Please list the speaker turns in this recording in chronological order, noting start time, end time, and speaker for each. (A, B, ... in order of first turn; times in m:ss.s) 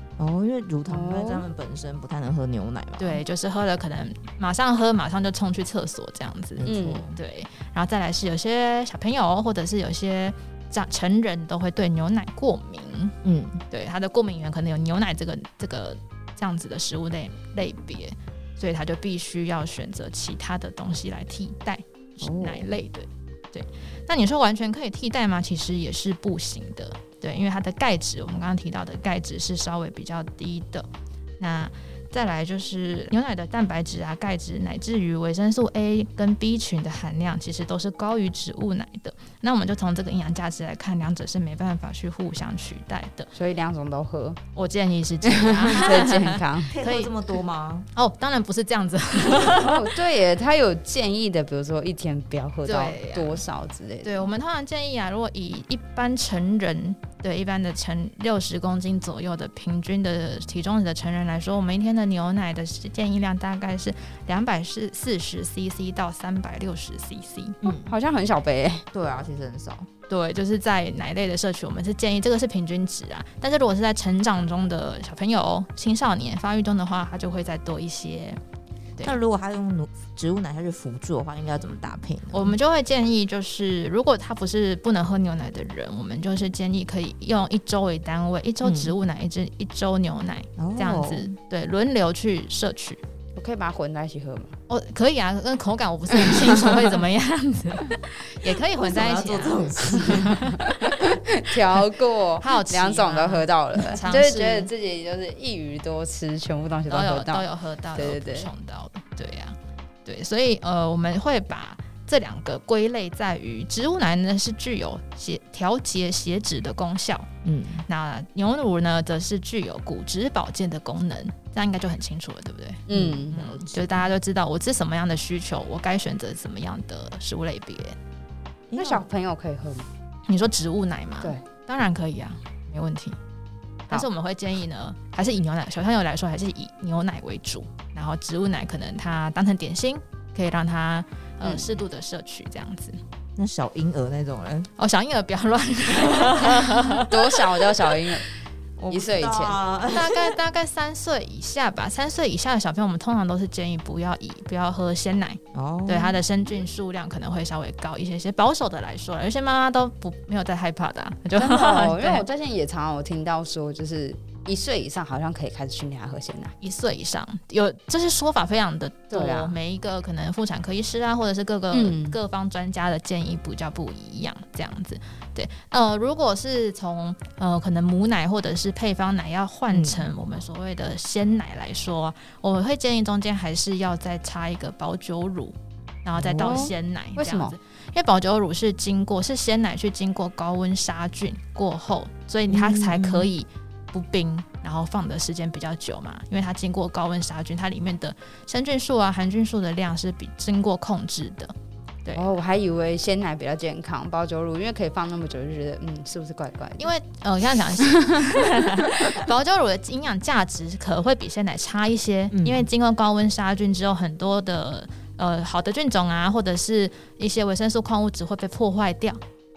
0:00.2-0:03.2 A
0:00.9-0:01.5 B
0:03.0-0:13.1 C
0:06.6-0:07.2 A
0:06.6-0:07.1 B
0:13.2-0:13.6 A
0:13.7-0:30.8 C
0:22.2-0:22.7 A
0:31.4-0:43.3 C
0:43.3-0:44.4 B
0:44.5-0:47.3 C
0:45.4-0:46.8 B
0:45.6-0:47.9 A
0:47.9-0:49.9 C
0:49.6-0:54.3 B
0:52.6-0:53.4 C
0:54.0-1:07.6 C
1:07.6-1:07.9 A
1:07.7-1:08.8 B
1:08.9-1:09.9 A
1:10.1-1:18.4 C
1:19.0-1:22.6 A
1:22.3-1:33.0 C
1:28.6-1:28.9 A
1:30.6-1:31.3 A
1:33.4-1:34.5 B
1:34.7-1:41.2 C
1:38.7-1:40.5 A
1:40.6-1:48.5 B
1:42.4-1:44.7 C
1:46.9-1:57.3 C
1:57.4-1:57.8 A
1:57.8-2:08.0 C
2:02.9-2:03.4 B
2:02.9-2:03.9 A
2:08.7-2:09.9 B
2:08.7-2:09.0 A
2:10.3-2:13.2 C
2:13.9-2:23.0 C
2:21.4-2:21.7 B
2:23.4-2:24.7 A
2:24.8-2:27.9 C
2:26.1-2:26.4 A
2:27.0-2:28.3 B
2:28.8-2:30.4 A
2:28.9-2:29.6 B
2:29.9-2:42.3 C
2:35.5-2:36.2 A
2:41.3-2:46.5 B
2:46.6-3:21.5 C
2:49.1-2:49.6 B
2:51.7-2:52.2 B
2:59.7-3:00.1 A
3:06.2-3:06.6 A
3:06.4-3:07.6 B
3:12.5-3:13.3 A
3:22.0-3:22.4 C
3:22.1-3:26.9 B
3:26.8-3:39.2 C
3:32.3-3:32.7 A